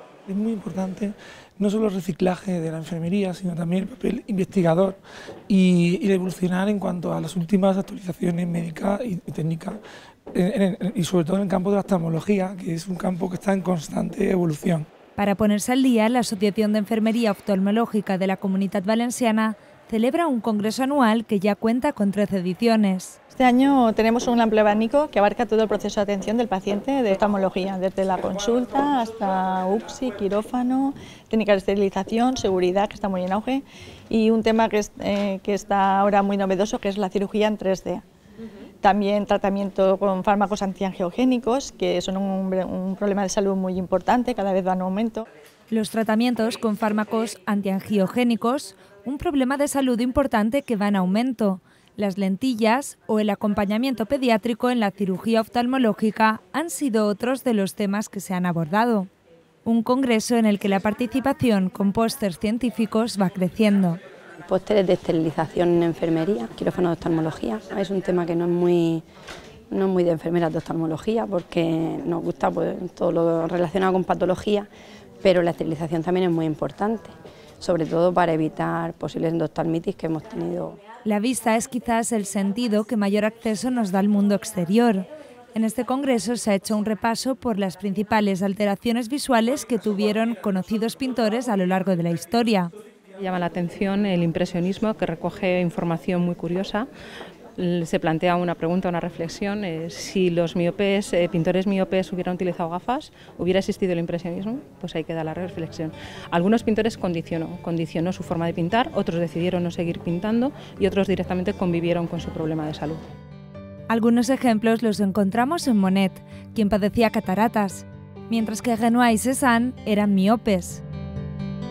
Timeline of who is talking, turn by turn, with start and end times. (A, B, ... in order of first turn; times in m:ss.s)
0:00.3-0:05.0 A
0:05.5-0:09.8 A
0:10.3-0:14.9 A
0:15.2-0:23.2 B
0:23.3-0:38.0 C
0:38.8-0:45.2 C
0:45.7-0:59.1 B
0:59.6-1:04.0 B
1:04.5-1:09.0 D
1:09.7-1:14.6 D
1:15.3-1:17.0 D
1:17.6-1:20.7 D
1:21.0-1:32.7 B
1:33.2-1:36.9 E
1:37.6-1:53.0 E
1:53.9-2:00.8 B